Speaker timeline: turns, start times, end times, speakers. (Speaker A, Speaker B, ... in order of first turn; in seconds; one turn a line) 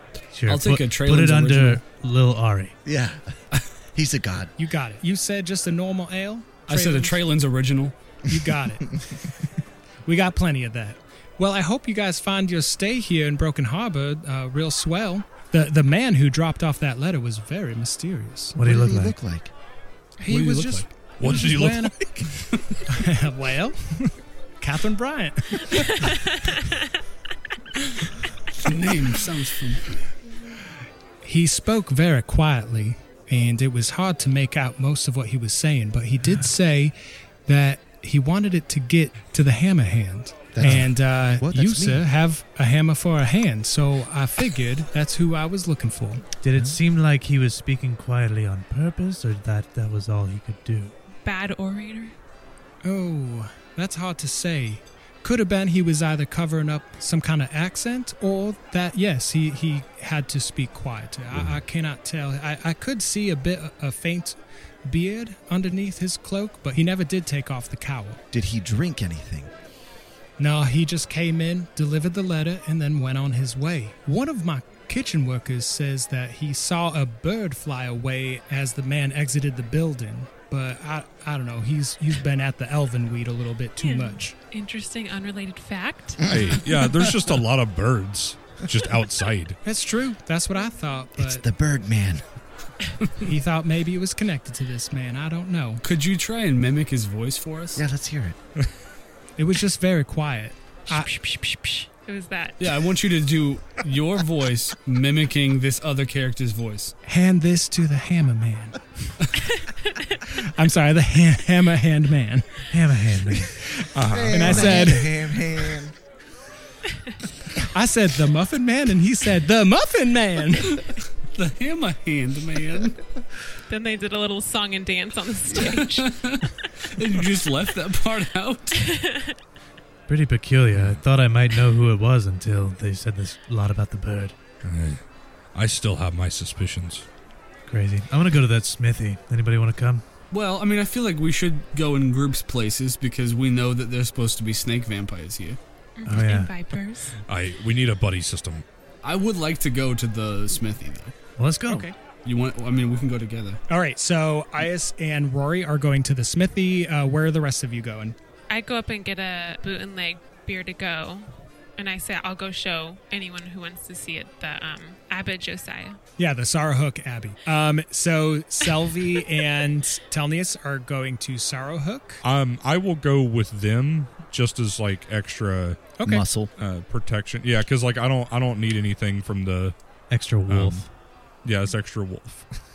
Speaker A: 0.3-2.8
Speaker B: 0.5-1.8
Speaker C: 2.8-4.5
Speaker D: 4.6-7.2
Speaker B: 6.7-7.9
Speaker D: 8.3-8.9
Speaker C: 8.3-9.2
Speaker D: 10.0-18.6
Speaker A: 18.5-19.2
Speaker C: 18.6-19.5
Speaker D: 20.2-22.3
Speaker B: 20.3-20.9
Speaker E: 21.2-22.8
Speaker D: 22.9-26.1
Speaker F: 25.7-26.8
Speaker B: 28.6-30.0
Speaker D: 28.8-29.1
Speaker D: 31.2-36.9
Speaker D: 37.5-46.2
Speaker C: 40.5-42.0
Speaker A: 46.4-50.9
Speaker F: 51.2-52.1
Speaker D: 52.8-68.2
Speaker C: 68.3-69.5
Speaker D: 70.4-84.3
Speaker F: 83.8-86.3
Speaker C: 86.2-86.6
Speaker E: 86.3-89.6
Speaker D: 89.6-91.4
Speaker C: 91.2-92.3
Speaker B: 93.0-93.3
Speaker D: 93.2-95.8
Speaker B: 95.8-97.8
Speaker C: 97.8-98.4
Speaker D: 99.4-101.1
Speaker F: 100.9-102.8
Speaker B: 102.6-106.9
Speaker D: 107.0-108.8
Speaker F: 109.4-110.2
Speaker D: 110.4-112.7
Speaker A: 112.7-113.6
Speaker E: 113.9-114.8
Speaker C: 114.1-115.9
Speaker D: 114.3-115.3
Speaker D: 117.7-120.8
Speaker B: 120.8-123.0
Speaker F: 123.7-126.6
Speaker B: 125.6-128.8
Speaker F: 128.8-129.3
Speaker A: 130.1-134.3
Speaker E: 130.7-131.0
Speaker E: 134.6-137.1
Speaker A: 137.7-140.0
Speaker B: 140.3-145.6
Speaker F: 146.0-147.1
Speaker A: 146.0-146.5
Speaker E: 147.3-148.6
Speaker B: 149.0-151.1
Speaker A: 151.4-151.9
Speaker D: 151.7-151.9
Speaker B: 152.2-153.6
Speaker D: 153.7-158.2
Speaker F: 158.5-166.0
Speaker D: 166.2-172.2
Speaker E: 172.2-175.9
Speaker D: 176.0-176.2
Speaker C: 176.0-176.5
Speaker E: 176.6-179.8
Speaker A: 180.1-180.9
Speaker E: 180.4-180.9
Speaker E: 181.4-182.6